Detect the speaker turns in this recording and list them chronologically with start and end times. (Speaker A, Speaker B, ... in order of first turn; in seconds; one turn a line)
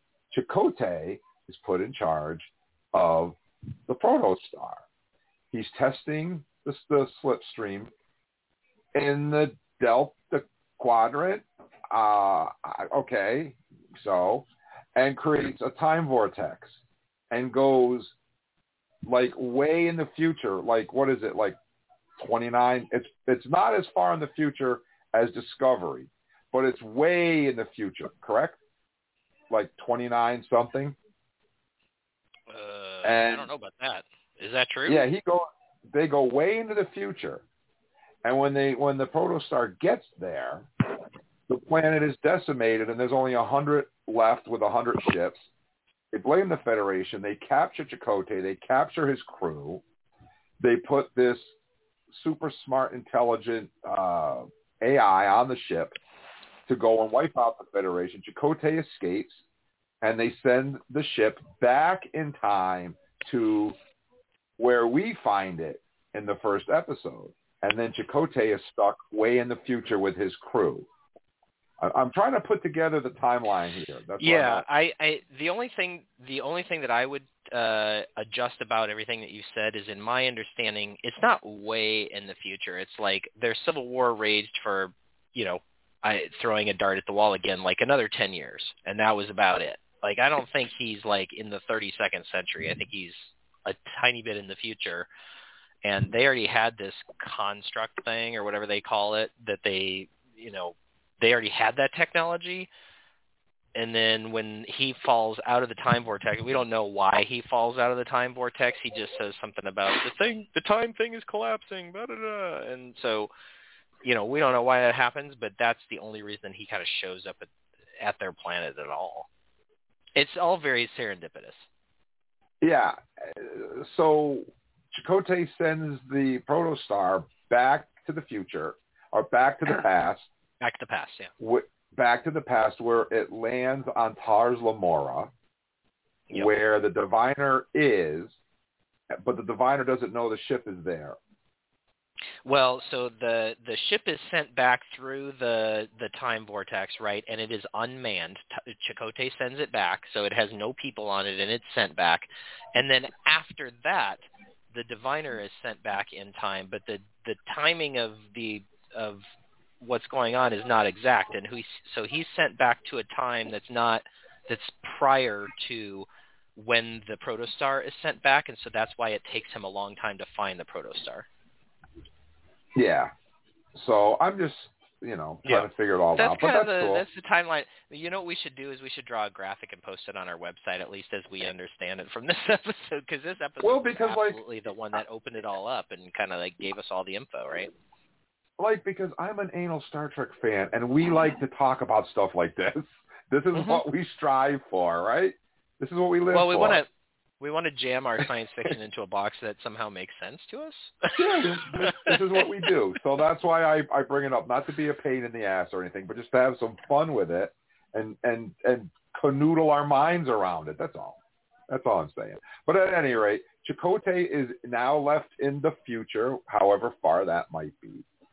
Speaker A: 0.3-4.8
Speaker A: 5.5-7.9
Speaker A: 8.9-18.1
Speaker A: 19.0-21.6
Speaker A: 22.2-28.6
Speaker A: 29.5-30.9
Speaker B: 32.5-35.0
Speaker A: 33.0-33.5
Speaker A: 34.9-37.4
Speaker A: 38.2-40.7
Speaker A: 41.5-45.5
Speaker A: 46.1-49.8
Speaker A: 50.6-51.5
Speaker A: 52.1-56.0
Speaker A: 56.7-59.4
Speaker A: 60.0-63.8
Speaker A: 64.6-70.9
Speaker A: 71.8-74.6
Speaker B: 74.2-95.1
Speaker B: 95.8-102.7
Speaker B: 103.7-113.3
Speaker B: 114.0-119.3
Speaker B: 120.1-121.6
Speaker A: 122.6-130.3
Speaker B: 130.6-131.3
Speaker A: 131.4-135.3
Speaker A: 136.3-138.3
Speaker A: 139.1-141.2
Speaker B: 142.4-159.2
Speaker B: 159.8-171.2
Speaker A: 172.7-173.1
Speaker A: 173.7-177.0
Speaker B: 175.4-187.7
Speaker A: 183.6-184.4
Speaker A: 188.6-196.8
Speaker B: 193.5-193.8
Speaker B: 196.3-196.9
Speaker B: 197.4-202.2
Speaker A: 201.2-218.0